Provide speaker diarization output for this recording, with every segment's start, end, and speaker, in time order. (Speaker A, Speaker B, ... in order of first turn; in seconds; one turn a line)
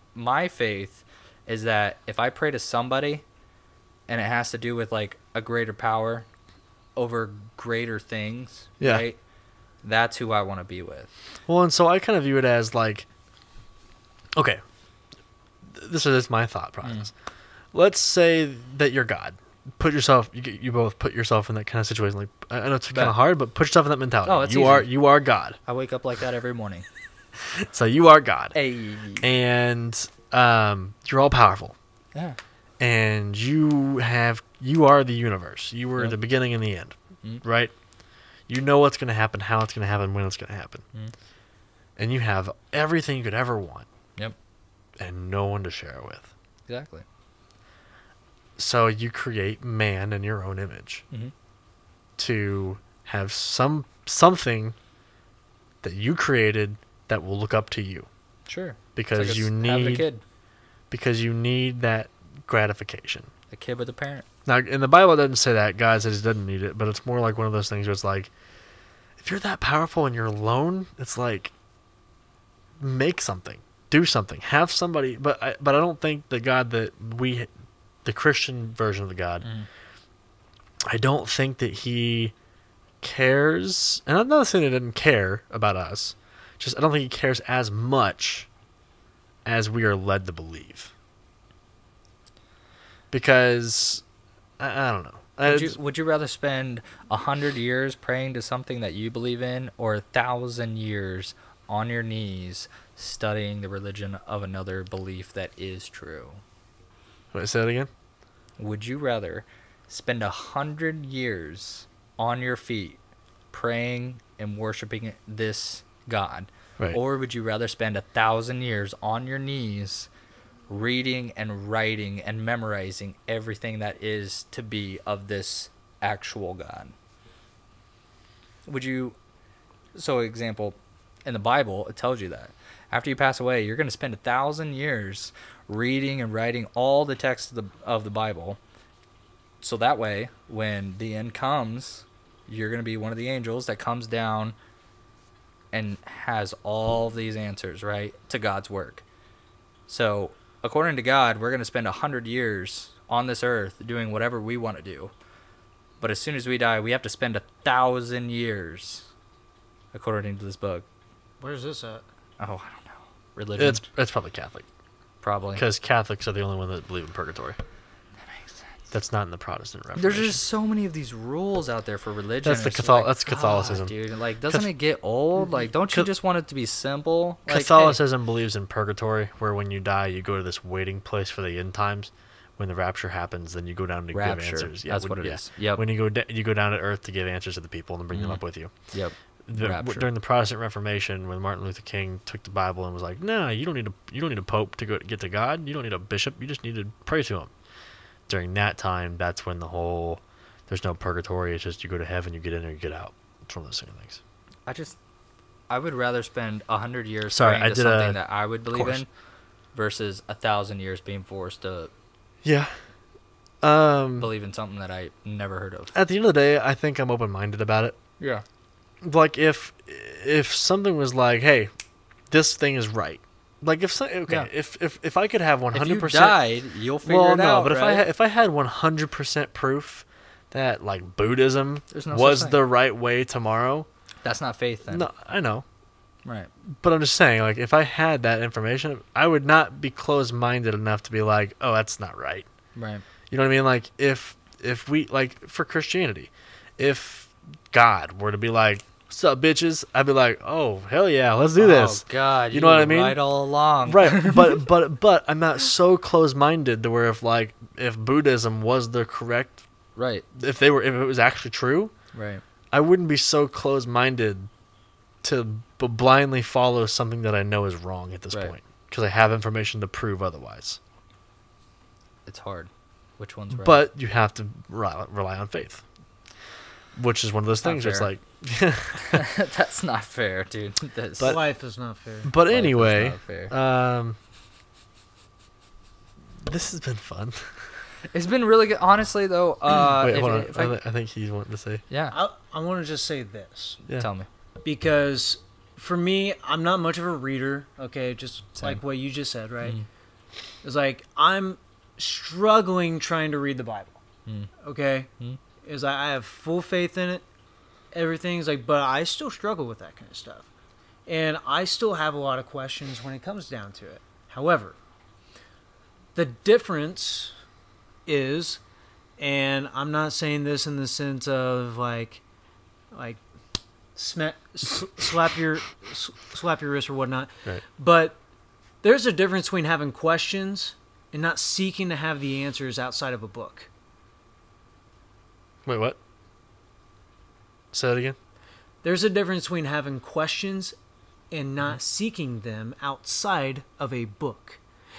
Speaker A: 0.1-3.2
Speaker A: 4.1-6.3
Speaker A: 7.0-9.2
Speaker A: 9.8-11.1
Speaker B: 11.5-13.1
Speaker B: 14.4-14.6
Speaker B: 15.6-17.1
Speaker A: 16.8-17.1
Speaker B: 17.7-25.6
Speaker A: 24.2-24.9
Speaker A: 25.7-26.9
Speaker B: 27.6-28.6
Speaker A: 28.6-29.3
Speaker B: 29.2-31.8
Speaker B: 32.8-37.7
Speaker B: 38.5-40.8
Speaker B: 42.0-43.9
Speaker B: 45.0-46.3
Speaker A: 46.7-47.0
Speaker B: 48.6-51.0
Speaker B: 52.2-54.8
Speaker B: 55.8-58.1
Speaker A: 58.5-60.2
Speaker B: 59.0-60.1
Speaker B: 60.9-63.3
Speaker A: 63.5-64.3
Speaker B: 64.5-68.3
Speaker B: 69.2-71.5
Speaker B: 72.8-77.5
Speaker B: 78.0-79.5
Speaker B: 80.9-82.3
Speaker B: 83.0-88.5
Speaker B: 89.5-90.9
Speaker B: 93.1-94.0
Speaker B: 94.6-95.8
Speaker A: 95.5-106.4
Speaker B: 107.3-107.9
Speaker A: 108.6-113.0
Speaker A: 113.5-120.1
Speaker A: 120.7-126.9
Speaker A: 128.7-129.2
Speaker A: 129.9-138.6
Speaker A: 139.6-144.6
Speaker A: 145.7-149.0
Speaker A: 149.9-155.1
Speaker A: 156.0-159.1
Speaker A: 159.9-160.8
Speaker C: 161.4-162.0
Speaker A: 162.4-163.8
Speaker B: 163.6-164.7
Speaker A: 165.2-165.6
Speaker B: 165.6-167.6
Speaker A: 168.2-168.7
Speaker B: 168.9-170.4
Speaker A: 170.0-178.0
Speaker B: 172.4-173.9
Speaker B: 177.5-188.7
Speaker A: 184.1-185.8
Speaker A: 188.1-190.1
Speaker B: 189.5-197.5
Speaker B: 198.3-204.2
Speaker A: 204.7-205.0
Speaker A: 205.7-209.1
Speaker B: 207.3-208.2
Speaker B: 208.7-209.0
Speaker A: 209.7-211.9
Speaker B: 212.4-212.8
Speaker B: 213.6-214.3
Speaker A: 214.2-215.9
Speaker B: 215.9-218.0
Speaker B: 219.0-221.7
Speaker B: 222.3-226.4
Speaker A: 225.7-228.0
Speaker B: 227.0-233.9
Speaker A: 231.9-232.6
Speaker A: 234.2-235.1
Speaker B: 234.9-235.6
Speaker A: 236.2-236.5
Speaker B: 236.7-242.5
Speaker A: 242.8-243.0
Speaker B: 243.3-253.2
Speaker A: 251.6-254.7
Speaker B: 253.8-259.6
Speaker A: 260.0-260.2
Speaker B: 260.3-261.9
Speaker A: 262.1-262.4
Speaker B: 262.7-264.5
Speaker B: 265.2-270.8
Speaker A: 272.3-273.8
Speaker B: 273.5-275.8
Speaker B: 276.9-279.2
Speaker A: 277.6-278.1
Speaker A: 279.1-281.4
Speaker C: 281.2-282.3
Speaker B: 282.2-284.2
Speaker A: 282.5-283.5
Speaker B: 286.4-287.8
Speaker A: 288.1-290.8
Speaker B: 289.8-291.8
Speaker A: 291.9-292.1
Speaker C: 292.1-293.8
Speaker A: 294.0-294.3
Speaker C: 294.6-299.8
Speaker C: 300.6-304.0
Speaker C: 304.6-305.1
Speaker C: 305.6-307.2
Speaker C: 307.9-310.5
Speaker C: 311.1-314.8
Speaker C: 316.1-317.4
Speaker C: 318.1-318.6
Speaker C: 319.2-322.2
Speaker C: 322.9-323.2
Speaker C: 324.0-328.2
Speaker C: 328.8-333.7
Speaker B: 335.6-336.0
Speaker B: 337.7-338.2
Speaker C: 338.8-340.8
Speaker C: 341.3-344.6